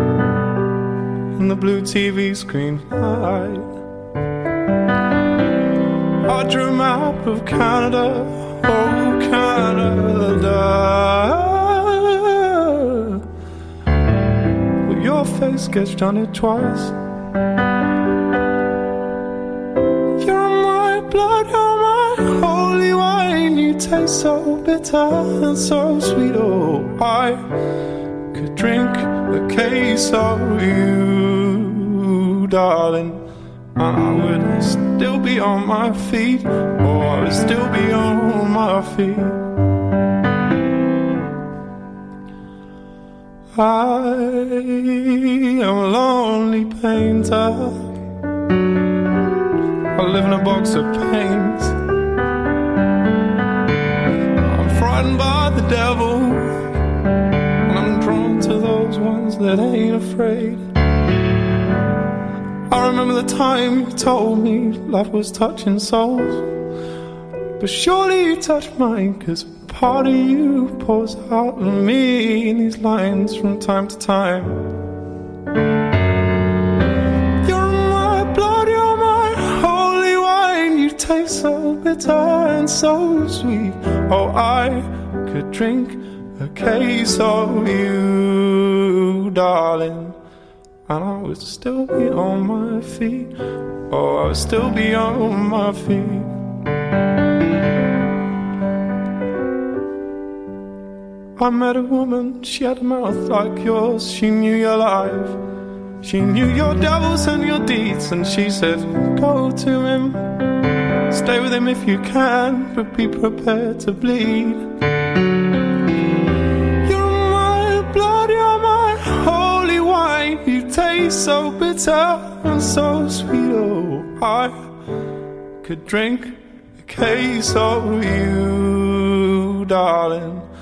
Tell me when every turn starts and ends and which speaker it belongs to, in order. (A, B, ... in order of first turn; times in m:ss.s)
0:01.3-0:03.7 A
0:06.2-0:13.2 A
0:14.8-0:17.0 A
0:20.2-0:27.4 A
0:28.3-0:33.2 A
0:33.8-0:39.4 A
0:43.6-0:47.9 A
0:49.9-0:51.8 A
0:54.4-0:56.6 A
0:57.6-1:00.7 A
1:02.7-1:06.6 A
1:07.6-1:14.6 A
1:17.4-1:30.2 A
1:30.9-1:33.3 A
1:33.9-1:36.3 A
1:41.4-1:45.4 A
1:46.0-1:50.2 A
1:51.1-1:54.6 A
1:56.8-2:04.7 A
2:05.6-2:10.5 A